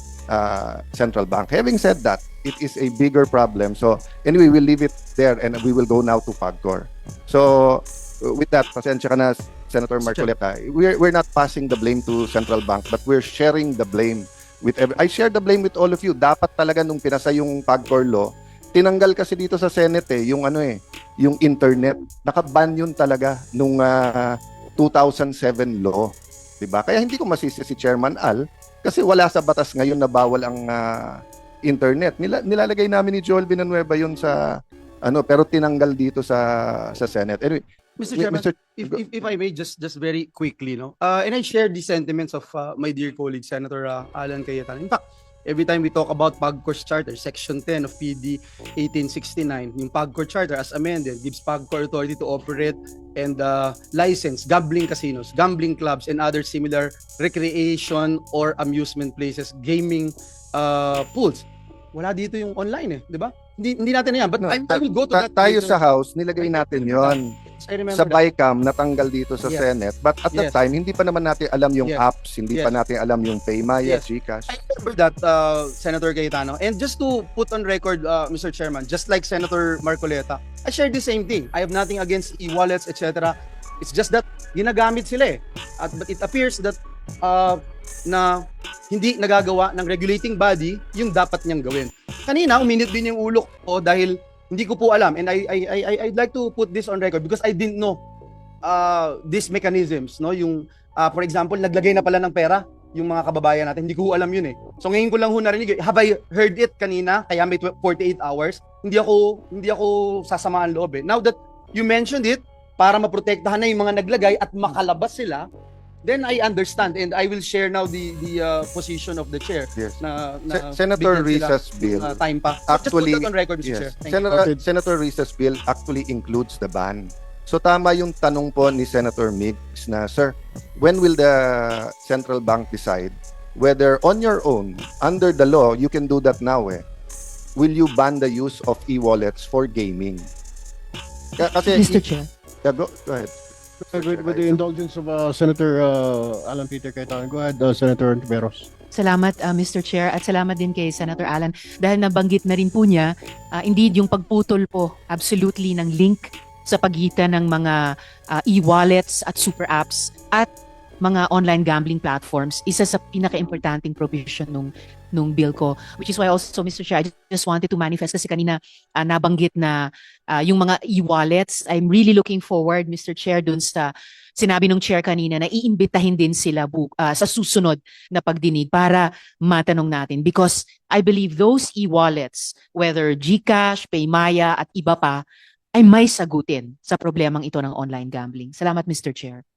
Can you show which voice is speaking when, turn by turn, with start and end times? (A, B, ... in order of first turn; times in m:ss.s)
0:00.3-0:34.4 A
0:10.0-0:10.3 B
0:35.0-0:37.6 A
0:38.0-1:05.8 B
0:38.1-0:38.9 A
1:04.4-1:07.4 A
1:06.4-1:08.2 B
1:07.9-1:14.5 A
1:13.8-1:38.0 B
1:38.6-1:55.5 B
1:56.0-2:04.3 B
2:00.5-2:02.2 A
2:02.7-2:16.8 A
2:04.3-2:04.6 C
2:17.6-2:20.3 A
2:21.4-2:22.0 A
2:21.7-2:22.3 D
2:22.6-2:24.6 A
2:23.9-2:28.7 C
2:28.9-2:37.8 D
2:38.4-2:40.5 D
2:41.0-3:05.2 D
3:05.7-3:09.4 D